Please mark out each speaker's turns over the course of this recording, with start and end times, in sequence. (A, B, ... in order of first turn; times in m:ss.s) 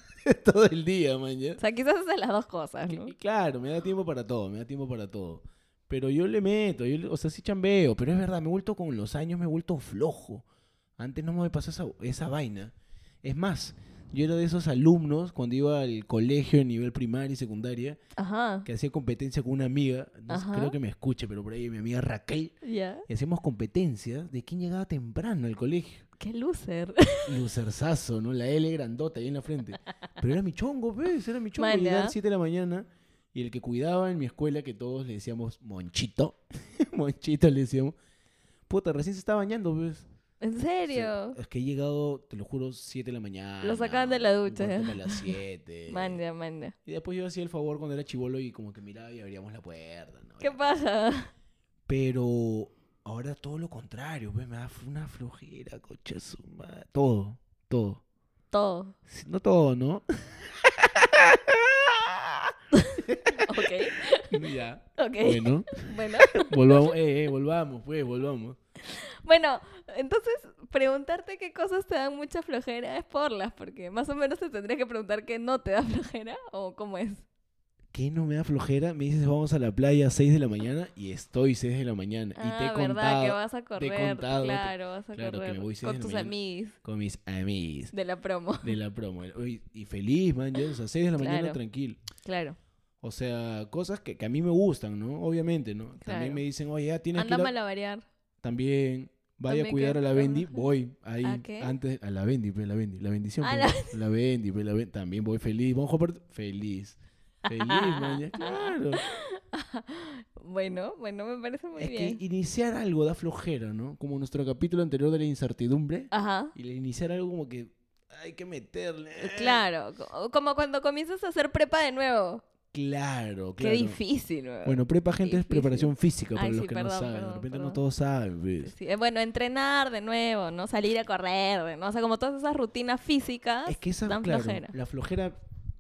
0:00.2-0:01.6 A
0:01.6-0:03.1 B
0:02.9-0:10.4 A
0:11.0-0:18.0 A
0:18.2-0:18.7 B
0:18.6-0:22.5 A
0:20.3-0:20.8 B
0:22.6-0:23.1 B
0:23.1-0:26.0 A
0:26.2-0:27.4 B
0:27.2-0:38.0 A
0:31.6-0:32.2 B
0:38.7-0:40.1 A
0:40.4-0:41.4 B
0:40.9-0:46.2 A
0:43.6-0:45.4 B
0:45.9-0:46.8 B
0:46.8-0:50.7 A
0:50.4-0:51.3 B
0:51.9-0:58.0 A
0:58.5-0:59.0 B
0:59.1-1:03.6 A
1:02.7-1:04.4 B
1:04.3-1:05.8 A
1:05.0-1:07.0 B
1:06.4-1:08.6 A
1:08.9-1:17.3 B
1:17.9-1:27.9 A
1:22.4-1:26.8 B
1:27.9-1:28.8 B
1:28.6-1:32.0 A
1:31.2-1:31.6 B
1:32.2-1:32.6 B
1:33.0-1:37.5 A
1:36.0-1:36.4 B
1:37.1-1:38.0 B
1:38.4-1:49.0 A
1:39.5-1:40.6 B
1:41.2-1:41.7 B
1:43.4-1:44.0 B
1:47.5-1:52.2 B
1:51.8-1:59.6 A
1:56.1-1:56.5 B
1:59.2-2:02.4 B
2:02.7-2:04.0 A
2:03.6-2:07.8 B
2:04.6-2:08.7 A
2:08.6-2:14.8 B
2:13.7-2:15.4 A